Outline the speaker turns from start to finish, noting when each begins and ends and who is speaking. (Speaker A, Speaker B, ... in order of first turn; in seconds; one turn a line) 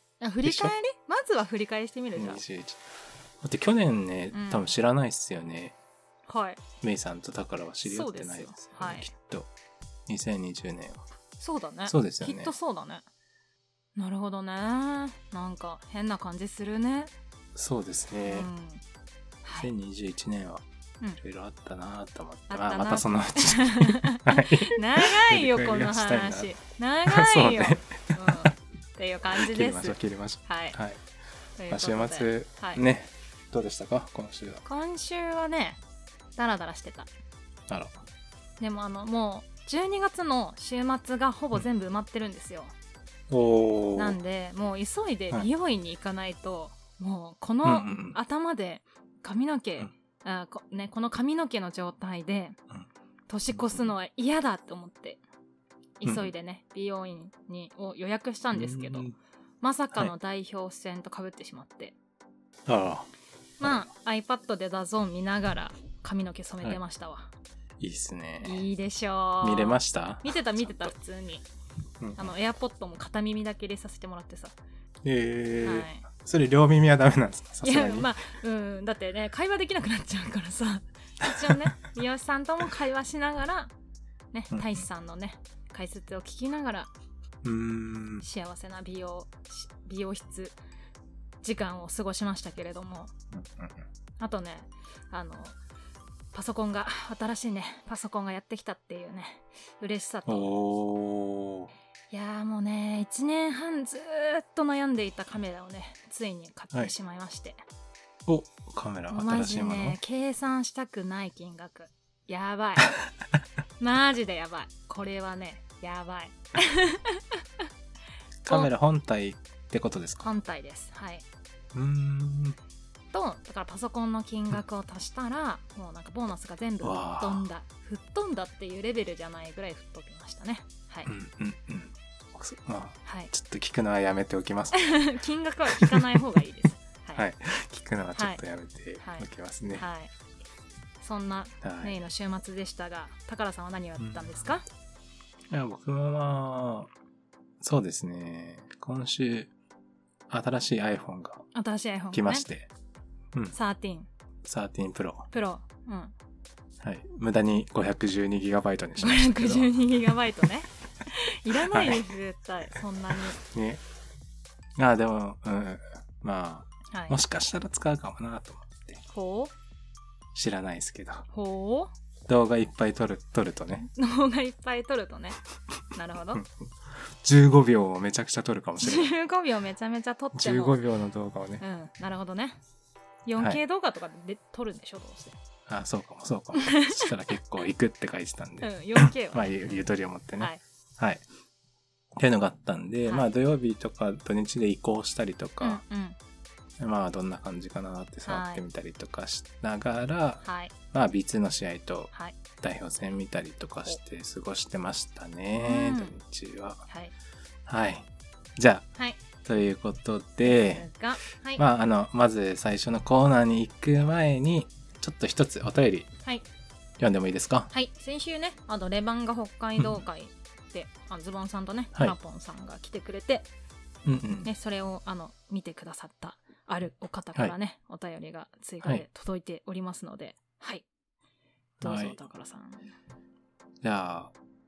Speaker A: 0.2-2.4
Speaker B: 0.4-0.7
Speaker B: 2.1-2.8
Speaker B: 3.4-5.8
Speaker A: 4.3-4.7
Speaker A: 6.3-6.6
Speaker B: 6.8-9.5
Speaker A: 7.8-9.1
Speaker B: 10.1-11.0
Speaker A: 11.4-13.1
Speaker B: 11.9-12.5
Speaker A: 13.9-17.1
Speaker B: 17.5-18.5
Speaker A: 18.2-18.8
Speaker A: 19.4-19.7
Speaker B: 19.6-20.6
Speaker B: 21.2-26.5
Speaker A: 22.5-30.8
Speaker B: 27.0-28.6
Speaker B: 29.3-31.0
Speaker A: 31.6-32.8
Speaker B: 31.7-34.6
Speaker A: 34.6-35.8
Speaker A: 36.4-37.1
Speaker B: 37.7-38.0
Speaker A: 38.6-42.7
Speaker B: 43.3-44.2
Speaker A: 43.9-52.6
Speaker B: 47.6-48.2
Speaker A: 53.3-55.2
Speaker B: 53.5-53.8
Speaker A: 56.0-59.1
Speaker B: 56.0-56.3
Speaker B: 58.5-59.1
Speaker A: 59.6-61.9
Speaker B: 62.6-63.1
Speaker A: 63.6-67.3
Speaker B: 67.8-68.6
Speaker A: 68.4-71.5
Speaker B: 69.4-70.9
Speaker B: 72.0-72.3
Speaker A: 72.2-74.5
Speaker B: 75.0-78.1
Speaker A: 75.6-76.0
Speaker A: 77.6-83.7
Speaker A: 84.3-86.9
Speaker B: 84.5-84.8
Speaker B: 87.4-88.2
Speaker A: 88.2-90.6
Speaker A: 91.4-93.1
Speaker B: 93.3-93.8
Speaker A: 94.2-95.5
Speaker A: 96.3-100.5
Speaker B: 100.3-101.7
Speaker A: 102.1-107.6
Speaker B: 108.2-110.0
Speaker A: 109.1-112.9
Speaker A: 113.8-117.4
Speaker B: 118.4-120.2
Speaker A: 120.2-121.2
Speaker B: 121.7-122.6
Speaker A: 123.1-131.1
Speaker B: 126.8-127.4
Speaker B: 131.1-135.0
Speaker A: 133.1-133.3
Speaker A: 134.7-137.2
Speaker B: 135.7-136.2
Speaker B: 137.1-139.8
Speaker A: 138.1-138.4
Speaker A: 139.0-140.1
Speaker A: 141.0-144.7
Speaker B: 141.6-142.0
Speaker B: 144.0-144.3
Speaker B: 145.5-146.9
Speaker B: 147.6-149.5
Speaker B: 150.3-151.4
Speaker A: 151.5-152.4
Speaker B: 152.1-152.7
Speaker A: 153.5-154.1
Speaker B: 154.4-155.3
Speaker A: 155.3-156.1
Speaker B: 156.8-159.7
Speaker A: 159.0-163.4
Speaker B: 161.5-162.1
Speaker B: 163.3-163.8
Speaker B: 164.8-169.0
Speaker A: 166.9-167.2
Speaker A: 169.1-169.5
Speaker B: 170.3-171.2
Speaker A: 171.3-171.9
Speaker B: 172.3-173.9
Speaker A: 173.9-175.4
Speaker A: 175.9-176.4
Speaker B: 177.1-179.1
Speaker A: 178.8-180.8
Speaker B: 180.3-181.6
Speaker A: 181.6-182.6
Speaker A: 183.2-185.4
Speaker B: 185.7-191.2
Speaker A: 186.5-187.1
Speaker A: 188.6-190.6
Speaker B: 192.2-195.8
Speaker A: 195.6-196.2
Speaker B: 196.8-206.8
Speaker A: 198.2-198.6
Speaker A: 200.4-200.7
Speaker A: 205.6-206.2
Speaker B: 207.7-208.9
Speaker B: 209.4-210.9
Speaker A: 210.4-211.6
Speaker B: 211.6-216.1
Speaker B: 217.0-217.7
Speaker A: 217.7-223.5
Speaker B: 219.8-220.0
Speaker B: 224.0-224.5
Speaker A: 224.4-230.8
Speaker A: 231.8-232.9
Speaker B: 231.8-232.2
Speaker B: 233.8-234.3